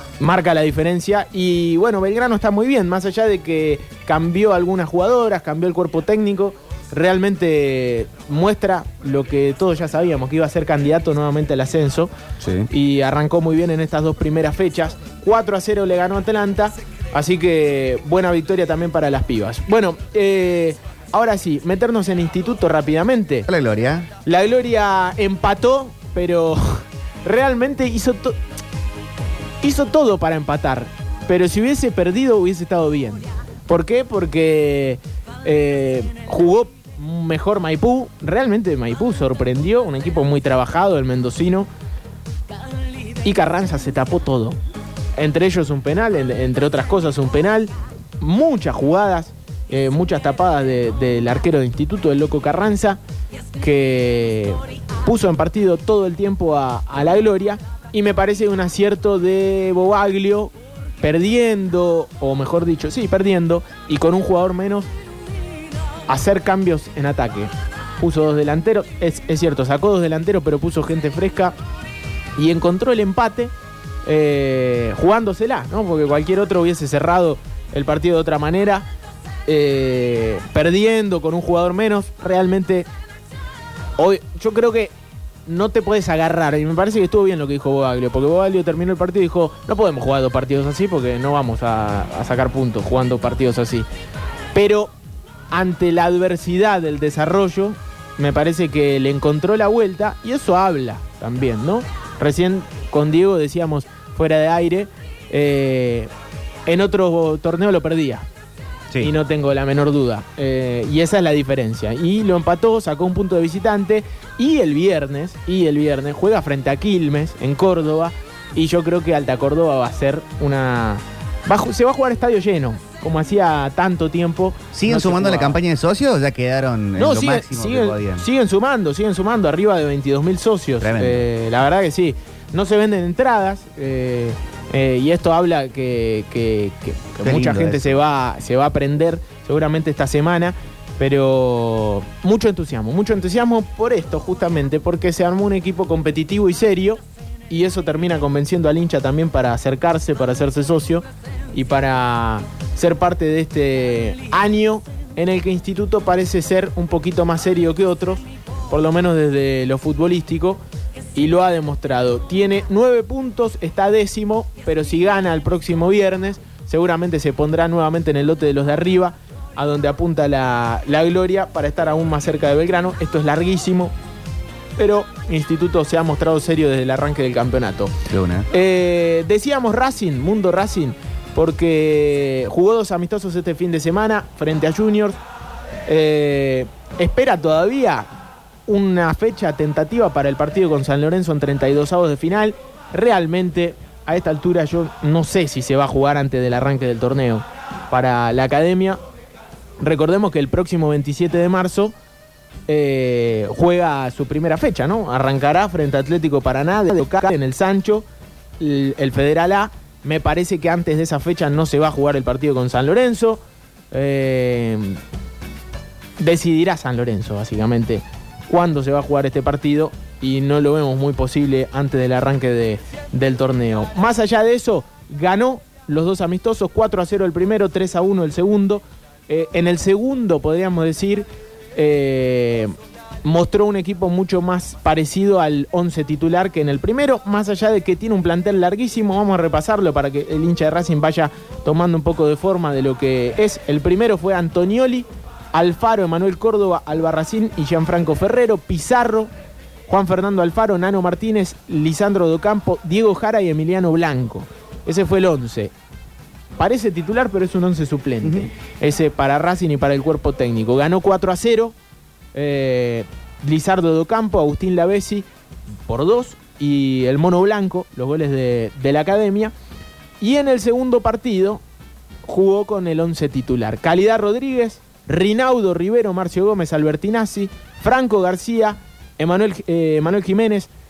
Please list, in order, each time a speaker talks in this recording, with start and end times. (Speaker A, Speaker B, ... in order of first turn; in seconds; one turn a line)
Speaker A: 0.2-12.1
Speaker B: 12.4-12.7
Speaker A: 12.7-23.5
Speaker B: 23.5-24.1
Speaker A: 24.2-28.4
Speaker A: 29.6-41.7
Speaker A: 43.2-44.6
Speaker A: 45.2-53.0
Speaker A: 53.6-64.9
Speaker A: 66.1-71.5
Speaker A: 72.4-73.5
Speaker A: 74.0-78.9
Speaker A: 79.5-82.9
Speaker A: 84.0-84.9
Speaker A: 85.5-93.9
Speaker A: 94.5-94.9
Speaker A: 95.5-106.1
Speaker A: 106.7-108.3
Speaker A: 109.0-125.6
Speaker B: 124.7-128.2
Speaker A: 127.0-160.6
Speaker B: 130.8-131.3
Speaker B: 137.2-138.0
Speaker A: 161.2-173.9
Speaker A: 174.8-178.0
Speaker B: 178.1-178.5
Speaker A: 178.5-185.2
Speaker A: 185.9-188.1
Speaker A: 188.7-199.0
Speaker A: 199.8-201.9
Speaker A: 202.7-208.1
Speaker A: 208.6-215.0
Speaker A: 216.2-249.3
Speaker A: 249.9-255.7
Speaker A: 256.6-261.8
Speaker B: 258.2-258.5
Speaker A: 262.3-265.3
Speaker A: 265.9-269.5
Speaker A: 270.2-271.6
Speaker A: 272.2-280.7